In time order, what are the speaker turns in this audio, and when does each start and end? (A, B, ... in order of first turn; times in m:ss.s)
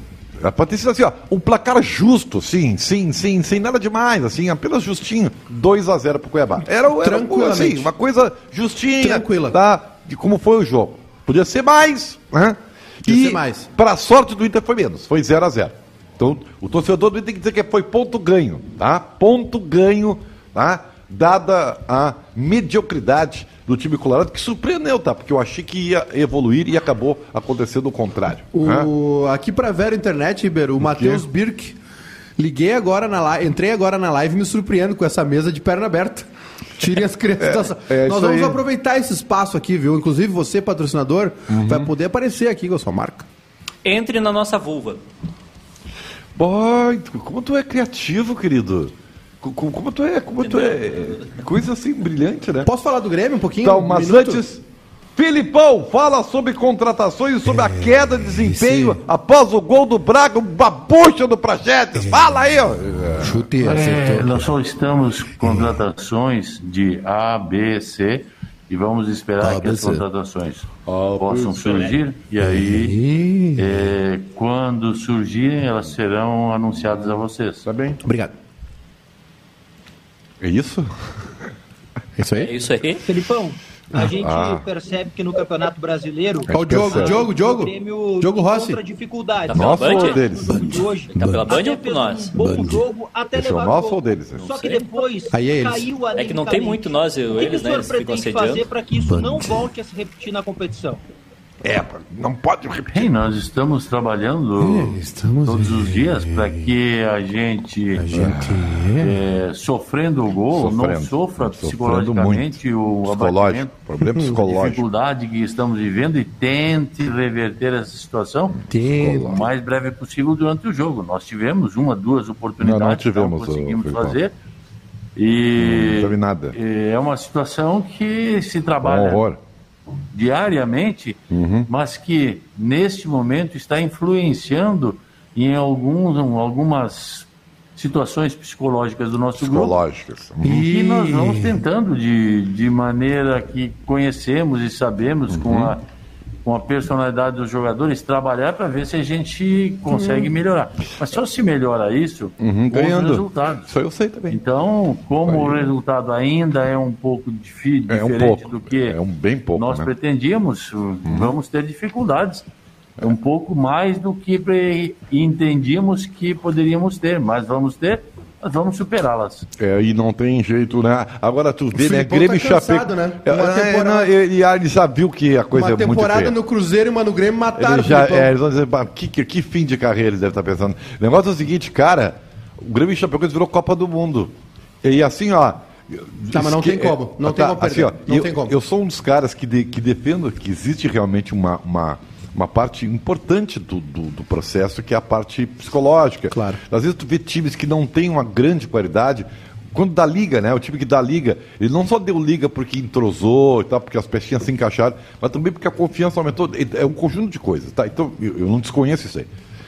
0:00.4-0:28.9 A
0:07.0-0:07.9 B
0:09.0-0:09.6 B
0:13.0-0:13.7 B
0:28.5-0:31.8 B
0:30.8-0:31.2 A
0:32.4-0:36.3 B
0:36.8-0:43.2 B
0:37.4-0:38.6 A
0:41.5-0:41.9 A
0:43.8-0:45.0 C
0:46.4-0:52.7 A
0:50.4-0:51.3 C
0:52.6-0:54.4 B
0:53.6-0:54.6 A
0:55.2-1:03.4 A
0:57.4-0:59.0 B
1:02.0-1:02.3 B
1:03.2-1:04.4 B
1:03.6-1:13.0 D
1:09.4-1:10.0 B
1:10.8-1:12.0 A
1:12.4-1:13.7 B
1:13.6-1:17.6 D
1:17.6-1:18.0 A
1:18.0-1:18.3 B
1:20.4-1:20.9 A
1:22.2-1:22.5 B
1:22.4-1:23.0 C
1:23.0-1:41.0 E
1:24.2-1:24.6 A
1:26.5-1:27.3 A
1:26.5-1:28.8 B
1:29.5-1:30.8 A
1:29.5-1:30.2 C
1:31.1-1:32.4 C
1:31.1-1:31.4 B
1:32.4-1:32.8 B
1:33.3-1:34.6 A
1:35.3-1:35.9 B
1:36.1-1:38.7 C
1:39.0-1:39.5 B
1:41.6-1:43.1 A
1:42.9-1:48.3 D
1:44.6-1:46.7 B
1:48.0-1:49.1 B
1:48.1-1:48.9 A
1:49.0-1:53.7 D
1:50.5-1:54.8 A
1:54.0-1:54.3 B
1:54.3-1:58.6 D
1:58.7-1:59.4 B
1:58.9-1:59.5 A
1:59.2-2:04.3 D
2:02.6-2:04.2 A
2:05.2-2:09.2 D
2:05.6-2:06.6 A
2:08.8-2:09.4 A
2:10.1-2:19.8 D
2:11.3-2:11.7 A
2:19.4-2:20.5 A
2:20.4-2:21.6 B
2:20.4-2:25.8 D
2:25.3-2:25.7 A
2:26.4-2:33.7 D
2:32.4-2:34.4 A
2:34.3-2:39.0 D
2:35.2-2:35.7 A
2:37.9-2:39.9 A
2:39.6-2:42.4 D
2:41.0-2:41.3 A
2:43.0-2:49.5 D
2:49.6-2:56.4 A
2:51.7-2:54.1 B
2:55.5-2:58.3 B
2:57.5-3:29.3 A
3:06.3-3:08.6 B
3:16.3-3:16.6 B